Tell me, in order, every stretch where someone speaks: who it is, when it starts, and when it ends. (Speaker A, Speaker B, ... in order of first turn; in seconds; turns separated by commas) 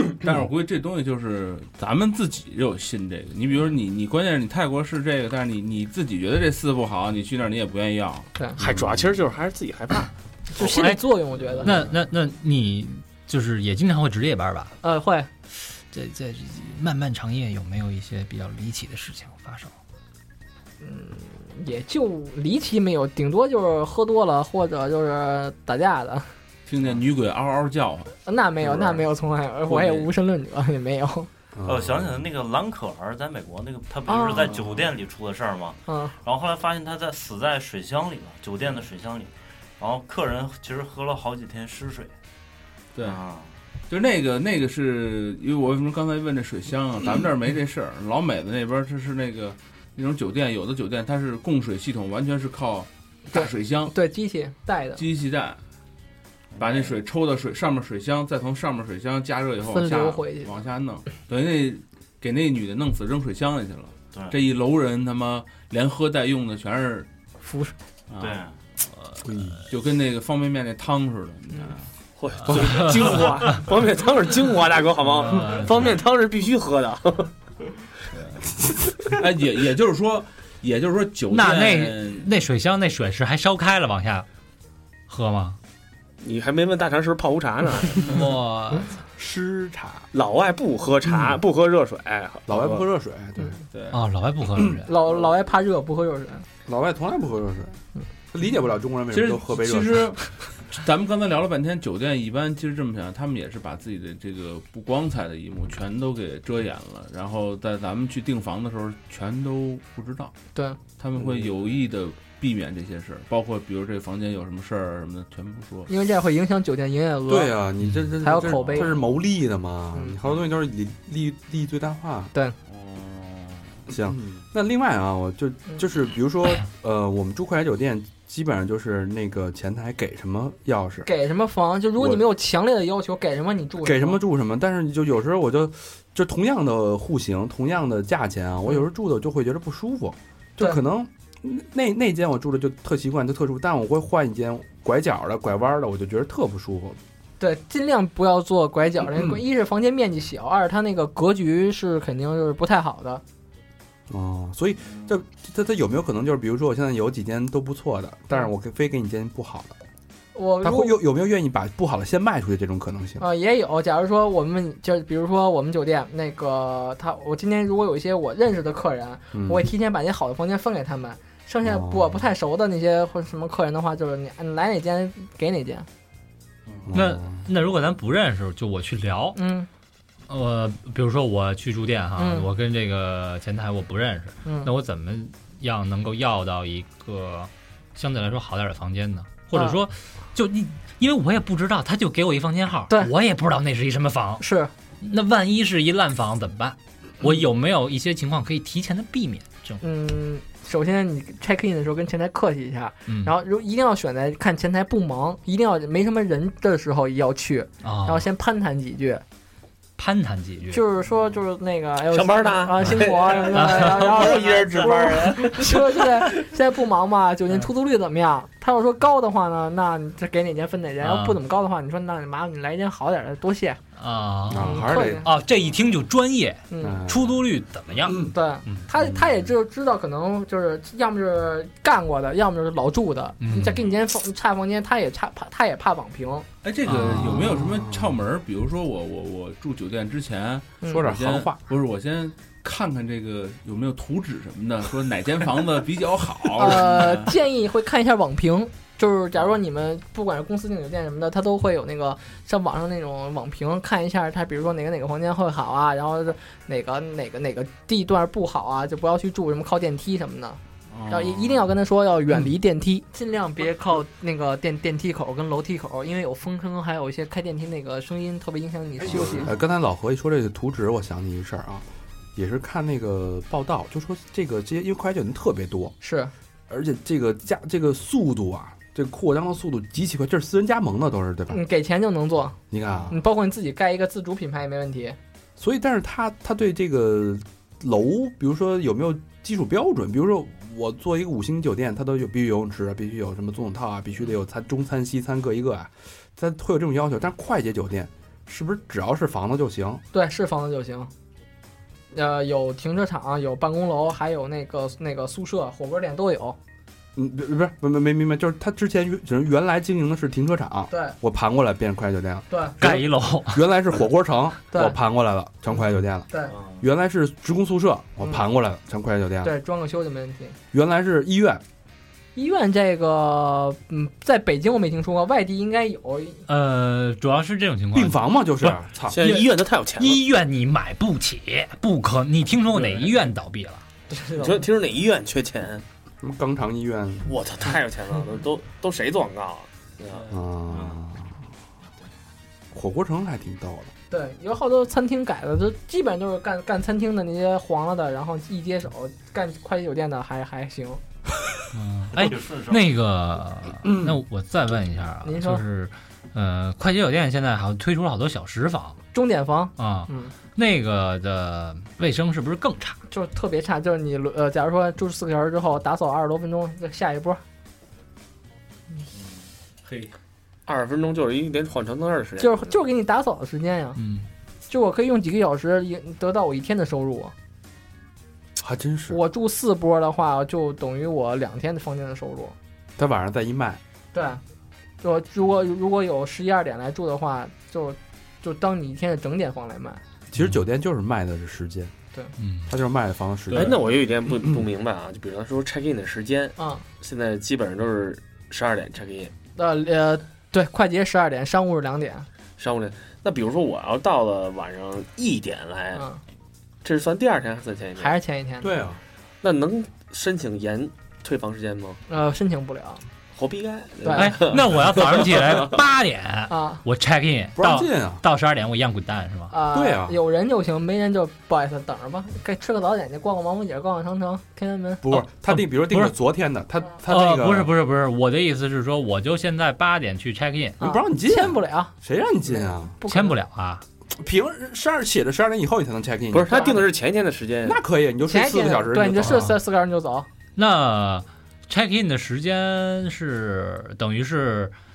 Speaker A: 0.2-8.3, Speaker B: 8.6-9.1, Speaker C: 8.6-10.1, Speaker D: 10.5-11.8, Speaker E: 10.6-14.8, Speaker D: 14.8-15.3, Speaker E: 15.5-19.7, Speaker D: 20.8-26.3, Speaker A: 26.7-28.1, Speaker D: 28.3-31.3, Speaker B: 28.6-28.9, Speaker A: 29.7-30.1, Speaker B: 31.6-32.2, Speaker F: 31.6-42.1, Speaker D: 34.1-34.6, Speaker D: 35.9-36.1, Speaker F: 43.0-43.5, Speaker A: 43.9-53.9, Speaker D: 53.3-55.0, Speaker A: 55.0-55.6, Speaker F: 56.5-57.0, Speaker A: 56.6-67.1, Speaker D: 59.7-60.5, Speaker F: 64.1-64.4, Speaker D: 67.4-67.7, Speaker A: 68.1-68.4, Speaker F: 68.2-68.6, Speaker B: 69.2-69.6, Speaker A: 69.7-71.8, Speaker C: 72.2-77.3, Speaker B: 72.5-72.8, Speaker E: 72.5-73.6, Speaker A: 75.0-75.8, Speaker E: 75.2-75.9, Speaker A: 78.1-78.4, Speaker A: 79.0-82.3, Speaker E: 81.3-84.3, Speaker E: 85.1-85.6, Speaker C: 86.2-88.2, Speaker E: 88.0-88.9, Speaker B: 89.2-90.1, Speaker C: 90.1-92.8, Speaker B: 92.5-93.6, Speaker A: 93.7-94.0, Speaker E: 93.9-94.9, Speaker D: 94.9-96.5, Speaker B: 96.7-97.8, Speaker B: 98.3-100.1, Speaker A: 99.1-110.3, Speaker A: 111.0-115.9, Speaker B: 111.2-111.5, Speaker D: 115.9-117.6, Speaker B: 117.3-122.3, Speaker D: 118.2-119.0, Speaker A: 122.7-123.9, Speaker B: 123.9-131.1, Speaker D: 131.1-134.2, Speaker B: 132.0-132.3, Speaker B: 133.8-147.0, Speaker D: 147.4-153.2, Speaker B: 154.1-159.8, Speaker D: 160.3-161.0, Speaker B: 160.6-163.2, Speaker D: 163.2-175.9, Speaker B: 169.3-169.7, Speaker B: 171.6-172.2, Speaker F: 176.7-176.9, Speaker B: 176.9-177.4, Speaker E: 176.9-179.4, Speaker D: 179.3-179.7, Speaker E: 180.3-194.4, Speaker D: 182.2-182.5, Speaker D: 184.4-184.7, Speaker D: 194.4-194.7, Speaker E: 195.0-199.8, Speaker D: 199.8-209.2, Speaker E: 203.1-203.3, Speaker E: 207.8-208.3, Speaker E: 210.0-210.8, Speaker D: 210.7-223.8, Speaker C: 212.1-216.3, Speaker E: 213.5-214.9, Speaker E: 221.0-221.4, Speaker E: 224.0-228.8, Speaker B: 224.5-225.3, Speaker D: 224.6-225.3, Speaker D: 226.7-227.0, Speaker B: 226.8-227.4, Speaker B: 228.1-228.3, Speaker D: 228.2-236.5, Speaker B: 228.9-229.5, Speaker E: 233.4-233.8, Speaker A: 236.6-247.3, Speaker E: 236.9-237.5, Speaker B: 236.9-238.2, Speaker B: 240.9-241.6, Speaker D: 246.6-269.6, Speaker A: 260.9-261.6, Speaker B: 269.0-275.9, Speaker D: 276.0-276.3, Speaker B: 276.7-281.6, Speaker D: 281.5-282.6, Speaker B: 282.7-283.2, Speaker D: 283.1-285.2, Speaker B: 285.6-300.0, Speaker D: 300.1-301.1, Speaker D: 302.1-306.6, Speaker B: 307.1-316.3, Speaker D: 312.5-312.8, Speaker E: 312.8-313.6, Speaker D: 314.7-315.0, Speaker F: 316.5-316.8, Speaker B: 316.8-319.6, Speaker D: 319.4-320.6, Speaker B: 320.7-321.6, Speaker D: 322.4-326.4, Speaker E: 326.5-333.8, Speaker B: 327.9-329.2, Speaker C: 329.1-330.2, Speaker D: 334.1-334.7, Speaker C: 334.4-335.9, Speaker B: 336.2-337.3, Speaker C: 337.3-340.3, Speaker B: 340.3-341.4, Speaker F: 340.7-341.0, Speaker B: 342.7-343.9, Speaker D: 344.1-351.0, Speaker E: 351.7-359.0, Speaker F: 352.1-352.9, Speaker B: 353.9-354.2, Speaker D: 355.2-355.6, Speaker D: 359.1-360.3, Speaker E: 359.8-363.0, Speaker D: 363.1-367.4, Speaker C: 370.7-372.8, Speaker D: 372.4-374.0, Speaker E: 374.0-374.3, Speaker D: 374.7-377.3, Speaker B: 378.6-379.2, Speaker D: 379.1-382.6, Speaker B: 383.0-383.8, Speaker D: 384.1-384.4, Speaker D: 385.0-390.0, Speaker B: 390.3-391.9, Speaker E: 392.4-392.7, Speaker B: 392.7-394.7, Speaker A: 393.5-393.8, Speaker C: 393.5-399.3, Speaker D: 396.6-396.8, Speaker D: 399.6-402.3, Speaker C: 402.6-406.1, Speaker D: 405.9-406.2, Speaker C: 406.8-408.2, Speaker D: 408.0-408.7, Speaker B: 408.6-409.0, Speaker C: 409.4-412.0, Speaker D: 412.1-413.0, Speaker C: 413.3-415.7, Speaker D: 414.0-414.4, Speaker E: 414.1-419.5, Speaker D: 416.5-416.8, Speaker B: 417.6-418.2, Speaker D: 419.5-425.1, Speaker B: 419.7-420.2, Speaker B: 425.0-427.7, Speaker E: 425.3-426.1, Speaker E: 427.1-430.8, Speaker D: 430.8-431.9, Speaker B: 430.8-433.0, Speaker D: 432.5-433.4, Speaker E: 433.0-433.8, Speaker B: 434.1-436.9, Speaker C: 436.3-437.8, Speaker D: 436.5-436.8, Speaker B: 437.6-439.5, Speaker D: 438.2-440.3, Speaker E: 439.3-439.6, Speaker E: 440.6-444.7